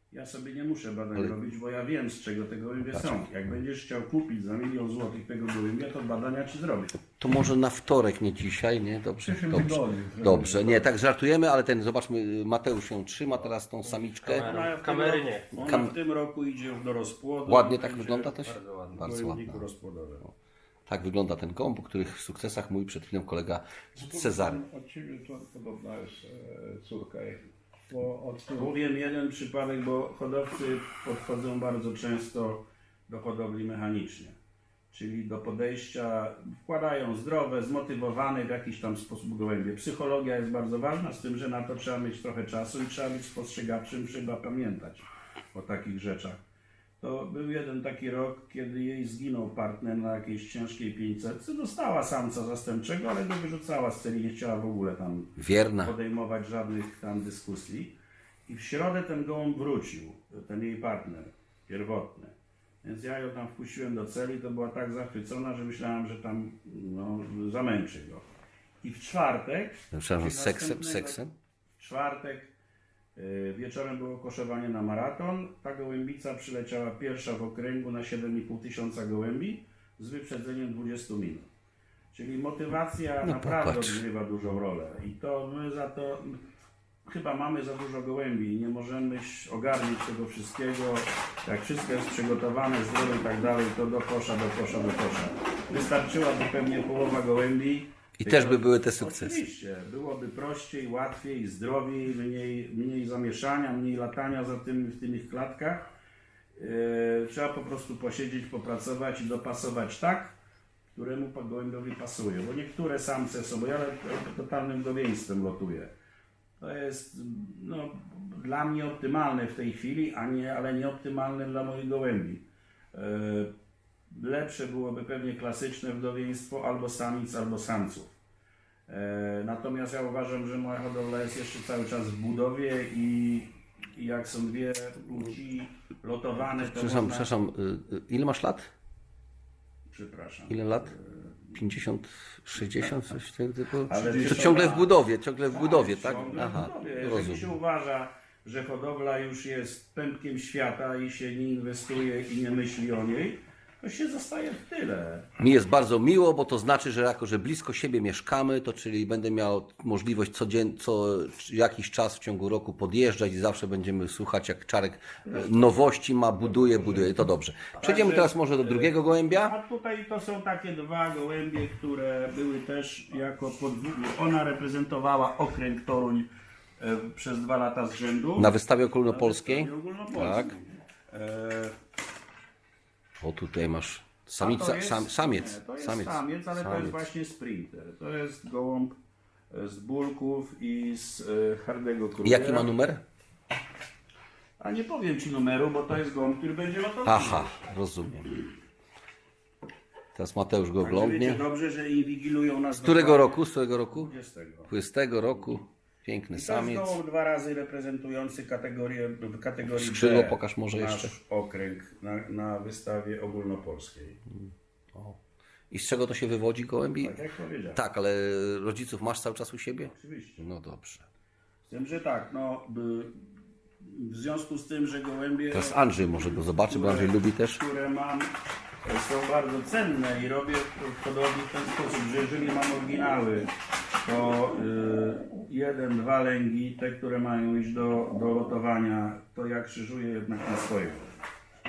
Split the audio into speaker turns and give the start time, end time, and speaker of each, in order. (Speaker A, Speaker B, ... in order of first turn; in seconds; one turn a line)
Speaker A: 0.1-7.0
Speaker B: 2.9-3.2
Speaker B: 7.2-14.6
Speaker C: 9.2-10.9
Speaker C: 14.2-15.4
Speaker A: 14.2-18.4
Speaker B: 15.6-15.9
Speaker B: 17.5-19.6
Speaker C: 18.5-18.9
Speaker A: 18.9-20.3
Speaker B: 20.9-24.6
Speaker C: 24.0-28.7
Speaker A: 28.6-34.4
Speaker A: 34.9-46.4
Speaker A: 47.0-58.0
Speaker B: 55.4-55.9
Speaker A: 58.5-68.3
Speaker A: 68.8-71.2
Speaker B: 69.9-71.3
Speaker A: 71.8-72.5
Speaker A: 73.2-81.5
Speaker A: 82.1-86.4
Speaker B: 83.2-84.0
Speaker A: 87.1-105.9
Speaker B: 98.2-99.4
Speaker A: 106.6-110.4
Speaker A: 110.9-115.9
Speaker A: 116.6-123.5
Speaker A: 124.1-128.2
Speaker A: 128.9-137.3
Speaker B: 136.5-138.7
Speaker A: 139.9-141.6
Speaker B: 140.5-140.9
Speaker B: 141.6-147.5
Speaker A: 142.6-143.0
Speaker A: 143.8-144.9
Speaker C: 144.1-144.5
Speaker A: 145.5-155.3
Speaker B: 155.4-169.5
Speaker A: 165.3-165.8
Speaker A: 166.4-167.2
Speaker A: 167.8-178.6
Speaker B: 178.4-180.5
Speaker A: 179.1-181.8
Speaker B: 183.2-187.0
Speaker A: 184.4-189.0
Speaker A: 189.5-192.7
Speaker B: 192.2-193.0
Speaker A: 194.6-197.6
Speaker B: 197.1-198.3
Speaker B: 200.2-201.4
Speaker A: 200.8-204.7
Speaker B: 202.8-204.1
Speaker B: 204.7-207.0
Speaker A: 206.3-214.2
Speaker B: 209.7-211.1
Speaker B: 215.7-217.2
Speaker A: 217.0-217.8
Speaker B: 217.8-221.1
Speaker A: 219.8-220.4
Speaker A: 221.7-223.2
Speaker A: 223.8-228.3
Speaker B: 225.5-227.6
Speaker A: 228.8-233.5
Speaker A: 234.0-241.1